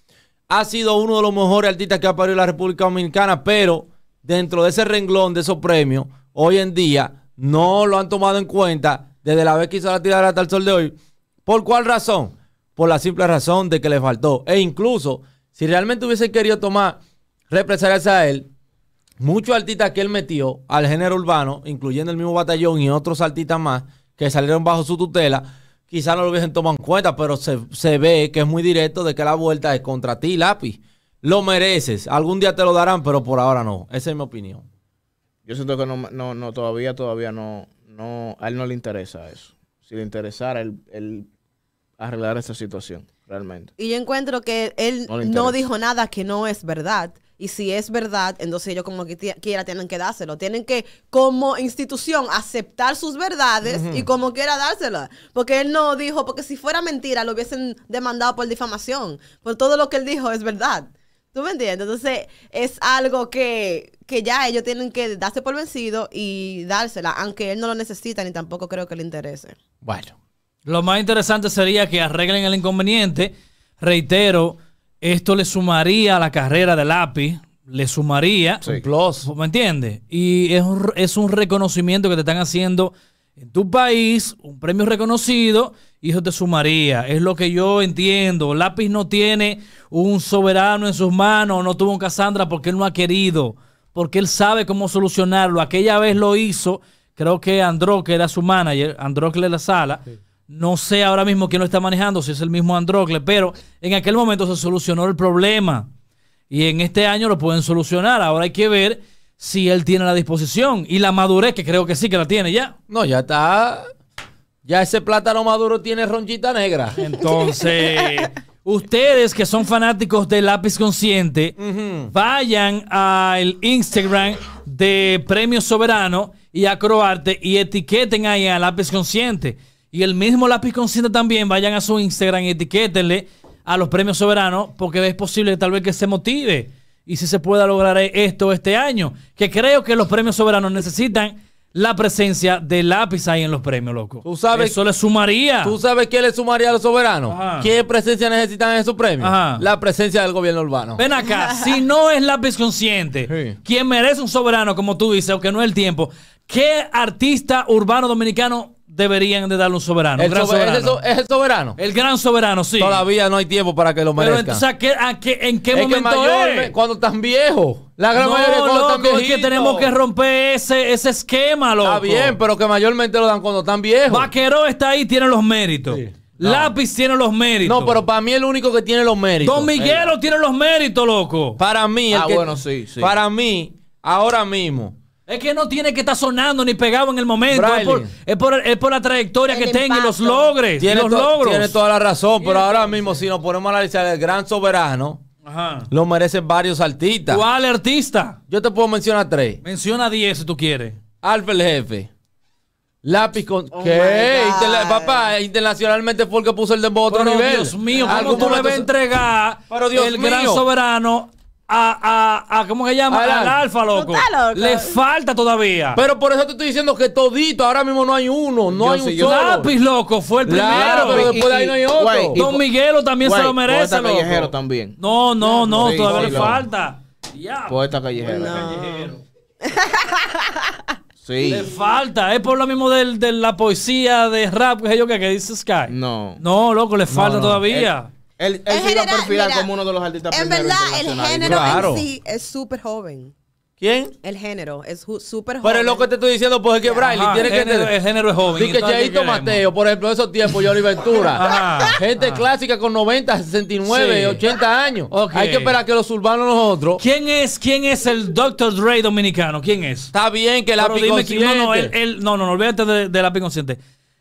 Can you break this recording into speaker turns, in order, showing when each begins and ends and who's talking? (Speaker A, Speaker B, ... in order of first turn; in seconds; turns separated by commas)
Speaker A: 0.5-17.0, Speaker A: 17.5-18.5, Speaker A: 19.2-34.6, Speaker B: 35.5-41.3, Speaker B: 42.0-43.7, Speaker C: 43.8-69.6, Speaker B: 45.1-45.6, Speaker A: 53.6-54.1, Speaker A: 69.8-70.1, Speaker D: 70.7-78.6, Speaker A: 78.6-79.3, Speaker D: 79.2-105.9, Speaker D: 106.5-112.8, Speaker A: 112.9-113.9, Speaker A: 114.6-117.0, Speaker D: 117.0-121.5, Speaker A: 121.6-122.1, Speaker D: 122.1-145.8, Speaker A: 144.2-144.8, Speaker A: 145.6-151.0, Speaker D: 147.3-147.7, Speaker D: 149.2-149.6, Speaker D: 151.0-161.0, Speaker A: 153.3-153.6, Speaker A: 160.2-161.8, Speaker D: 161.8-163.0, Speaker A: 162.8-164.6, Speaker D: 164.2-166.7, Speaker A: 165.7-169.9, Speaker D: 168.1-172.4, Speaker A: 171.8-174.3, Speaker D: 174.1-178.0, Speaker A: 175.9-176.7, Speaker A: 177.6-180.2, Speaker D: 179.4-181.6, Speaker A: 181.6-182.5, Speaker B: 182.1-183.1, Speaker A: 183.0-184.9, Speaker D: 185.3-191.8, Speaker A: 187.5-188.1, Speaker C: 189.5-190.6, Speaker A: 190.8-195.2, Speaker D: 192.4-193.1, Speaker D: 195.4-195.9, Speaker A: 195.9-197.4, Speaker D: 197.3-198.4, Speaker A: 198.5-199.6, Speaker D: 199.6-201.0, Speaker A: 201.2-202.1, Speaker A: 203.0-208.9, Speaker C: 203.7-205.3, Speaker D: 207.1-216.0, Speaker C: 208.0-208.3, Speaker A: 209.7-210.6, Speaker A: 213.1-213.6, Speaker C: 213.9-215.0, Speaker A: 216.0-219.7, Speaker B: 218.7-219.6, Speaker D: 219.2-221.3, Speaker A: 220.5-222.4, Speaker B: 220.7-222.7, Speaker D: 222.4-229.2, Speaker B: 223.2-225.0, Speaker B: 225.7-226.6, Speaker A: 225.8-226.6, Speaker B: 227.7-228.7, Speaker C: 228.2-229.1, Speaker C: 229.6-230.8, Speaker B: 231.2-231.7, Speaker D: 231.4-238.1, Speaker B: 235.9-236.4, Speaker A: 237.1-237.6, Speaker B: 237.7-241.9, Speaker C: 238.7-239.7, Speaker C: 240.3-243.3, Speaker A: 241.4-242.1, Speaker A: 243.8-244.1, Speaker C: 244.2-246.1, Speaker A: 245.6-247.9, Speaker C: 246.8-247.4, Speaker D: 247.1-249.6, Speaker A: 248.5-257.0, Speaker D: 251.3-252.4, Speaker D: 253.9-254.4, Speaker D: 255.1-255.8, Speaker D: 257.0-260.1, Speaker A: 260.1-261.9, Speaker D: 260.8-263.8